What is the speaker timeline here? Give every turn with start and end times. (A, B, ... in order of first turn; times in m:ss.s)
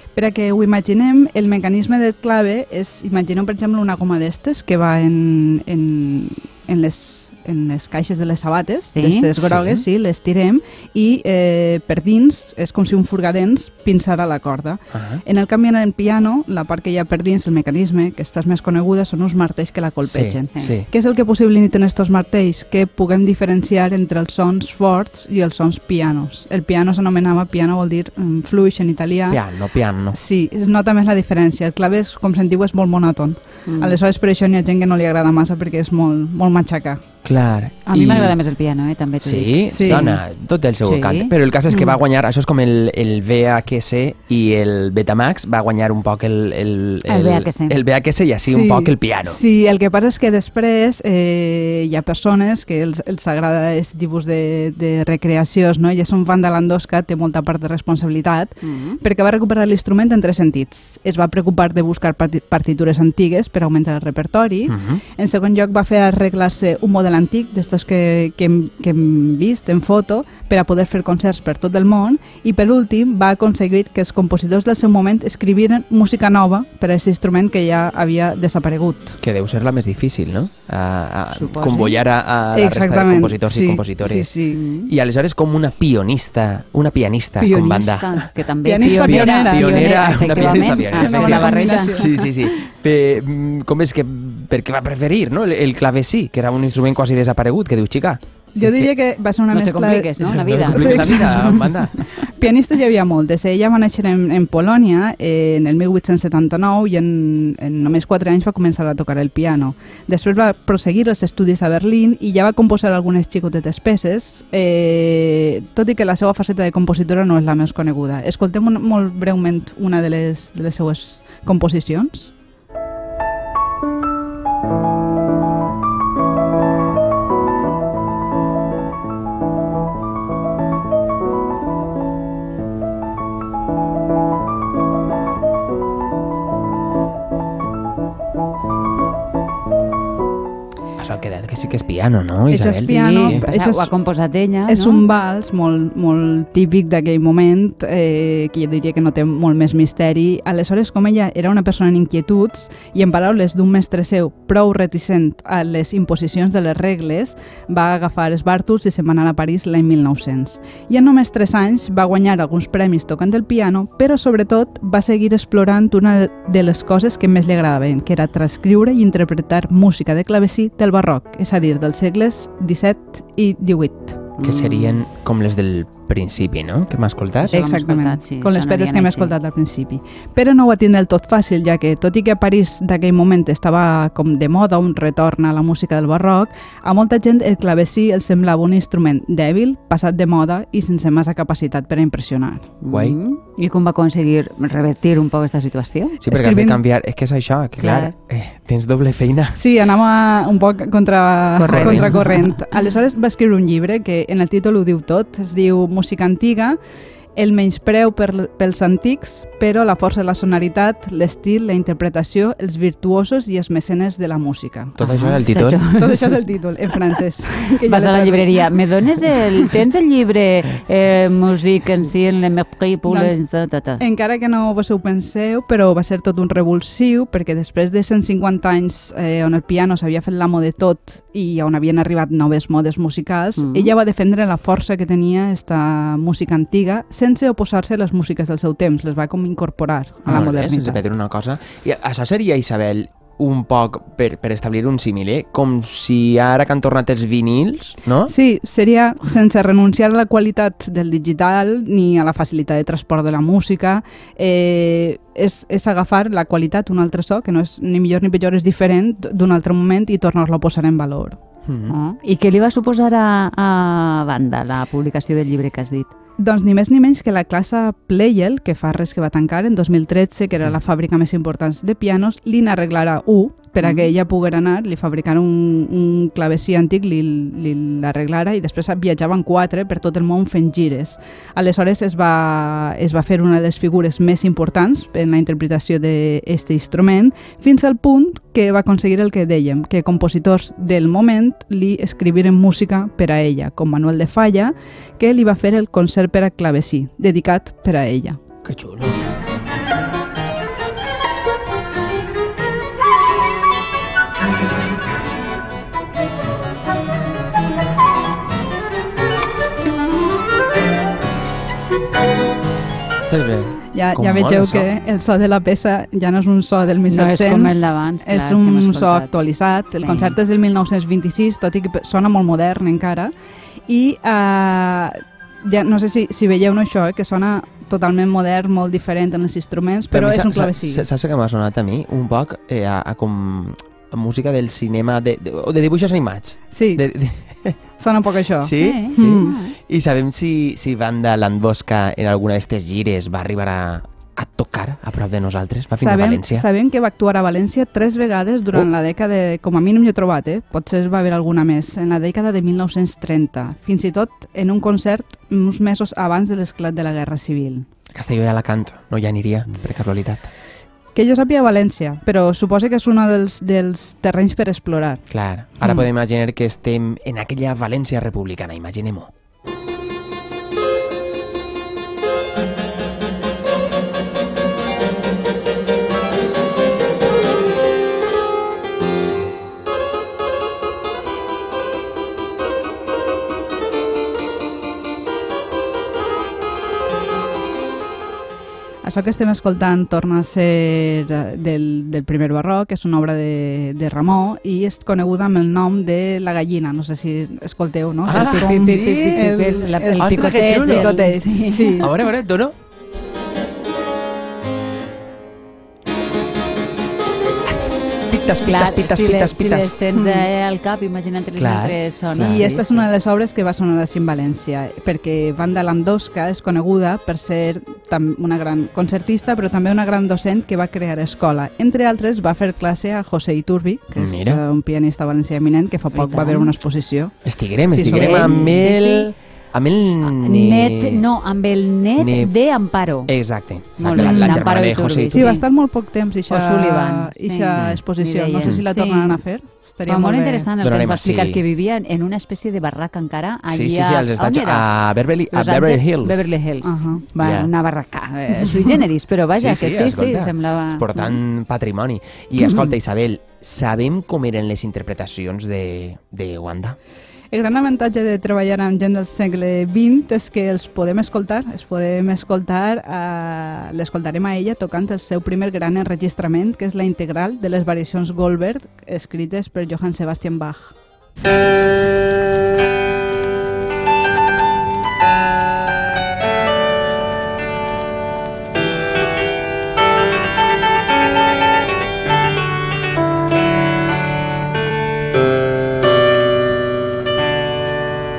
0:00.1-0:29.4 A
0:08.9-0:09.3 B
0:09.3-0:09.8 C
0:14.9-0:15.2 C
0:20.0-0:20.9 C
0:29.3-0:30.2 C
0:30.1-0:37.0 A
0:33.7-0:34.0 B
0:37.2-0:38.4 C
0:37.9-0:40.0 B
0:39.2-0:49.4 C
0:39.7-0:40.2 A
0:40.8-0:41.3 B
0:41.7-0:42.0 A
0:47.1-0:47.8 B
0:48.4-1:19.2 A
0:58.6-0:59.0 B
1:04.7-1:05.0 C
1:19.2-1:28.3 C
1:21.3-1:22.0 B
1:22.5-1:24.6 A
1:24.5-1:24.9 B
1:27.4-1:32.2 B
1:28.6-1:32.3 A
1:28.8-1:38.9 C
1:38.5-2:02.3 A
1:39.5-1:41.6 B
1:40.3-1:42.0 C
2:21.0-2:23.4 C
2:22.5-2:23.9 A
2:22.9-2:25.0 B
2:24.7-2:54.3 A
2:54.4-2:55.0 B
2:54.4-2:57.6 C
2:57.5-3:12.7 A
2:57.5-2:59.3 B
3:12.8-3:16.2 B
3:12.9-3:13.2 C
3:16.2-3:19.6 C
3:16.3-3:16.8 A
3:17.8-3:18.1 B
3:19.6-3:26.8 A
3:21.5-3:22.6 B
3:21.7-3:22.2 C
3:27.4-3:35.0 A
3:35.0-3:35.8 C
3:35.0-3:37.2 B
3:35.9-3:38.7 A
3:37.8-3:44.0 B
3:39.3-3:39.8 A
3:43.1-3:43.4 A
3:44.0-4:01.0 A
3:53.6-3:53.9 B
4:00.2-4:08.3 C
4:08.3-4:21.4 A
4:21.6-4:22.0 C
4:21.9-4:26.1 B
4:26.4-4:58.4 A
4:33.8-4:34.1 B
4:58.6-4:59.2 C
5:13.2-5:14.9 C
5:13.9-5:23.3 A
5:17.1-5:19.3 B
5:19.9-5:20.4 B
5:23.9-5:31.0 A
5:30.1-5:37.8 C
5:36.7-5:37.0 A
5:38.0-5:39.6 A
5:38.6-5:46.6 C
5:38.8-5:39.8 B
5:46.0-5:57.9 A
5:58.1-6:00.5 C
6:01.1-6:05.2 A
6:05.3-6:09.3 C
6:29.0-6:42.1 A
6:38.2-6:39.6 C
6:38.3-6:42.2 B
6:40.2-6:41.3 C
6:42.0-6:42.8 C
6:48.3-6:49.9 C
6:48.6-6:53.1 B
6:50.1-6:50.5 A
6:51.6-6:52.7 C
6:52.4-7:07.3 A
7:04.2-7:04.6 C
7:06.1-7:06.8 B
7:07.4-7:11.2 C
7:07.9-7:08.8 A
7:08.0-7:09.3 B
7:10.2-7:13.3 B
7:12.2-7:12.5 C
7:13.3-7:15.6 C
7:14.0-7:15.6 B
7:14.1-7:14.7 A
7:15.3-7:20.7 A
7:16.5-7:19.4 B
7:17.7-7:18.0 C
7:20.1-7:24.9 B
7:20.8-7:21.6 C
7:23.6-7:26.6 C
7:25.5-7:31.4 B
7:26.8-7:27.2 A
7:27.4-7:27.7 C
7:29.5-7:37.0 C
7:32.6-7:32.9 B
7:37.5-7:50.9 A